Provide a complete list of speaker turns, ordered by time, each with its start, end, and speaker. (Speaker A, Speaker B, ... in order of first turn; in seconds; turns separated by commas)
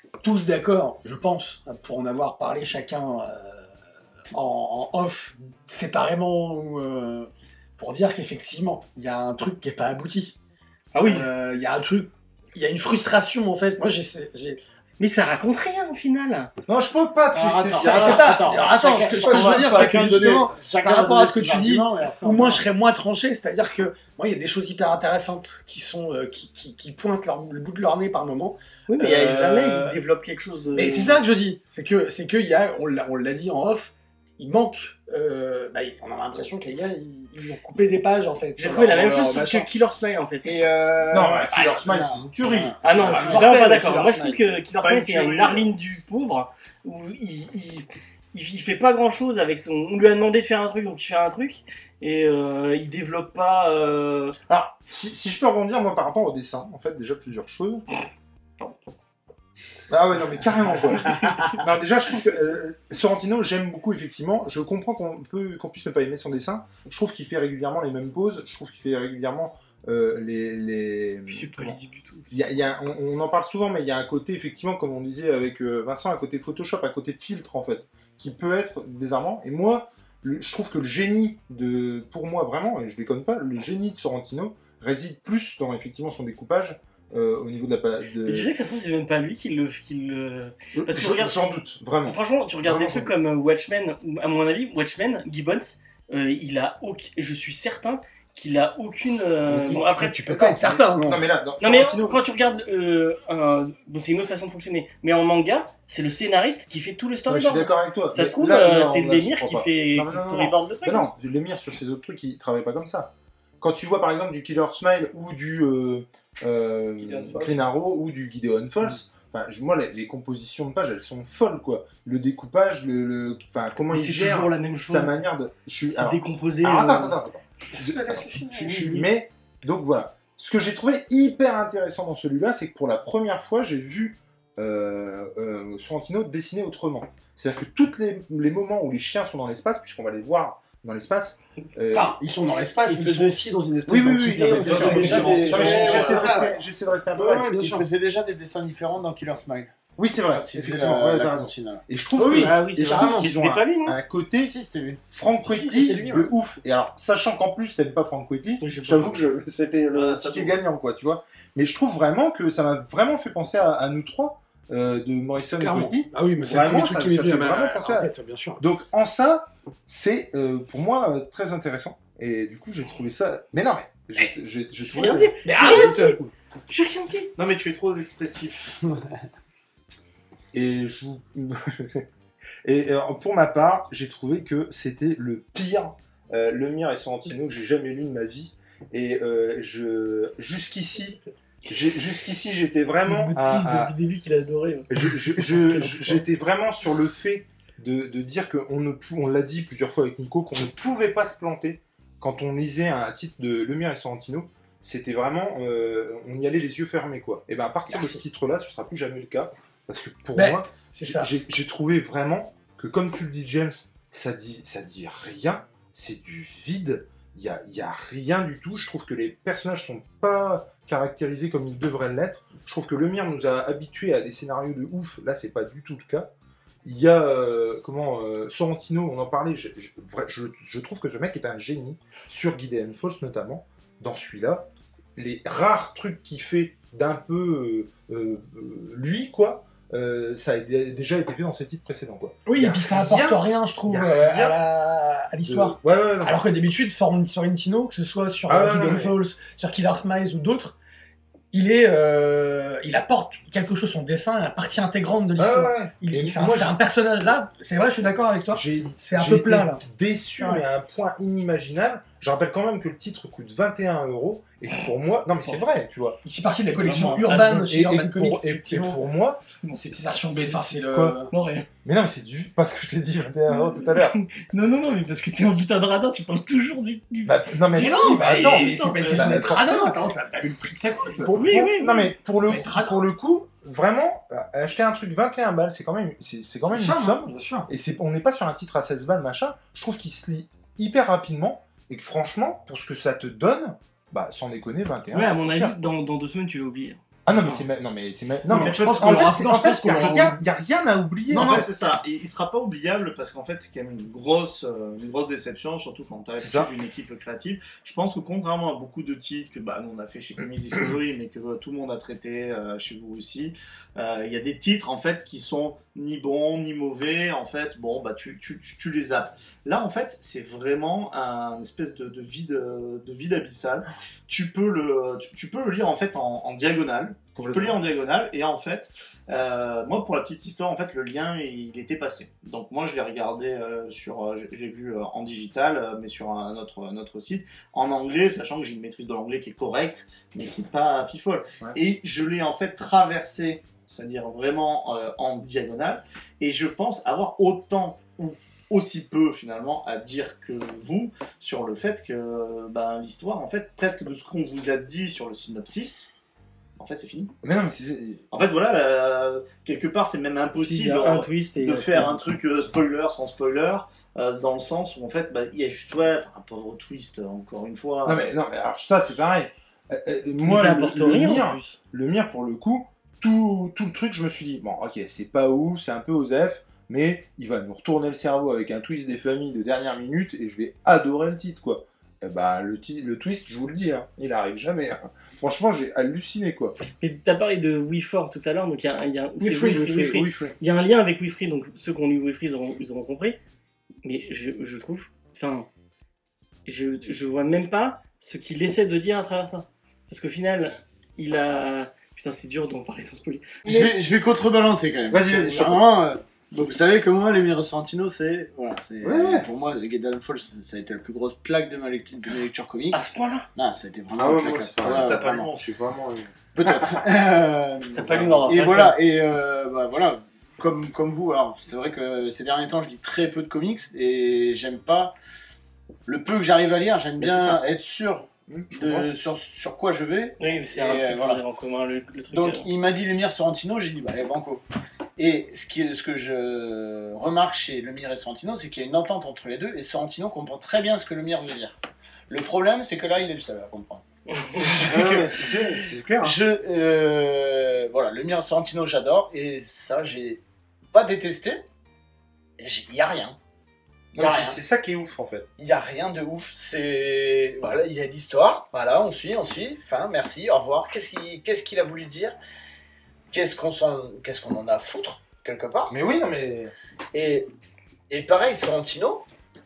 Speaker A: 0.2-3.7, Speaker A: 4.3-10.3, Speaker B: 10.9-11.3, Speaker A: 11.0-14.6, Speaker B: 15.0-16.5, Speaker C: 16.7-18.4, Speaker D: 17.3-22.6, Speaker A: 17.8-30.0, Speaker E: 18.8-20.4, Speaker B: 28.9-31.2, Speaker A: 30.7-39.7, Speaker B: 38.6-40.6, Speaker A: 40.4-41.9, Speaker C: 41.1-43.7, Speaker D: 41.8-43.5, Speaker B: 42.8-54.4, Speaker A: 42.8-44.5, Speaker E: 44.8-45.7, Speaker C: 54.5-57.8, Speaker C: 59.9-71.8, Speaker B: 71.3-72.3, Speaker C: 72.3-88.5, Speaker B: 88.2-91.4, Speaker C: 90.8-93.1, Speaker B: 92.0-100.2, Speaker C: 99.5-102.2, Speaker A: 99.5-101.2, Speaker B: 101.6-111.0, Speaker C: 107.3-142.1, Speaker E: 117.0-117.7, Speaker B: 123.9-125.2, Speaker B: 125.9-127.2, Speaker B: 127.7-129.1, Speaker A: 141.9-146.5, Speaker D: 142.9-143.3, Speaker C: 143.9-147.6, Speaker D: 144.3-146.5, Speaker B: 144.6-146.2, Speaker E: 144.9-145.4, Speaker A: 147.2-147.9, Speaker D: 147.2-149.7, Speaker C: 150.0-154.5, Speaker D: 150.3-151.8, Speaker A: 152.2-153.3, Speaker B: 152.3-154.0, Speaker D: 154.4-155.0, Speaker C: 155.1-176.3, Speaker A: 155.4-156.3, Speaker B: 158.6-159.2, Speaker E: 159.9-160.6, Speaker A: 165.5-168.6, Speaker B: 174.9-176.2, Speaker A: 175.4-176.2, Speaker B: 176.7-177.3, Speaker E: 177.4-178.9, Speaker C: 180.5-182.1, Speaker C: 182.6-193.9, Speaker B: 193.0-196.2, Speaker C: 194.9-226.3, Speaker A: 207.9-208.2, Speaker A: 210.3-211.3, Speaker C: 226.8-244.6, Speaker A: 242.4-250.8, Speaker C: 245.4-246.4, Speaker C: 248.5-249.2, Speaker A: 251.5-259.8, Speaker C: 255.4-256.8, Speaker C: 258.5-266.2, Speaker A: 266.2-269.0, Speaker B: 266.8-267.6, Speaker C: 267.5-271.2, Speaker A: 269.8-271.3, Speaker B: 271.3-271.7, Speaker C: 271.8-274.1, Speaker B: 273.5-279.6, Speaker C: 277.2-280.0, Speaker A: 277.7-281.6, Speaker B: 281.2-282.1, Speaker C: 281.4-295.8, Speaker A: 282.4-283.0, Speaker A: 286.6-287.7, Speaker B: 295.1-297.6, Speaker C: 297.2-301.7, Speaker A: 298.5-300.4, Speaker E: 298.5-299.3, Speaker E: 301.3-356.1, Speaker A: 301.3-301.6, Speaker C: 306.3-306.7, Speaker C: 327.3-327.8, Speaker E: 356.8-357.3, Speaker C: 357.4-358.2, Speaker E: 358.3-368.3, Speaker B: 360.6-362.2, Speaker C: 368.0-386.8, Speaker B: 370.4-371.8, Speaker B: 387.0-393.4, Speaker C: 389.4-390.5, Speaker B: 394.0-395.7, Speaker B: 396.6-403.6, Speaker D: 403.6-415.5, Speaker C: 403.6-403.9, Speaker C: 405.1-405.9, Speaker C: 409.0-409.5, Speaker B: 412.9-413.5, Speaker C: 414.1-417.0, Speaker E: 414.8-415.7, Speaker D: 416.5-425.1, Speaker B: 417.9-419.0, Speaker D: 426.1-431.4, Speaker C: 427.2-427.6, Speaker C: 428.5-429.1, Speaker B: 430.4-432.7, Speaker D: 432.3-434.6, Speaker D: 435.2-441.8, Speaker D: 442.3-445.5, Speaker B: 444.3-444.7, Speaker C: 444.9-446.4, Speaker D: 446.2-451.6, Speaker D: 452.6-453.4, Speaker C: 454.1-455.5, Speaker D: 454.1-454.6, Speaker D: 455.6-462.4, Speaker D: 463.3-465.9, Speaker C: 465.9-466.7, Speaker D: 467.1-467.5, Speaker D: 468.1-469.2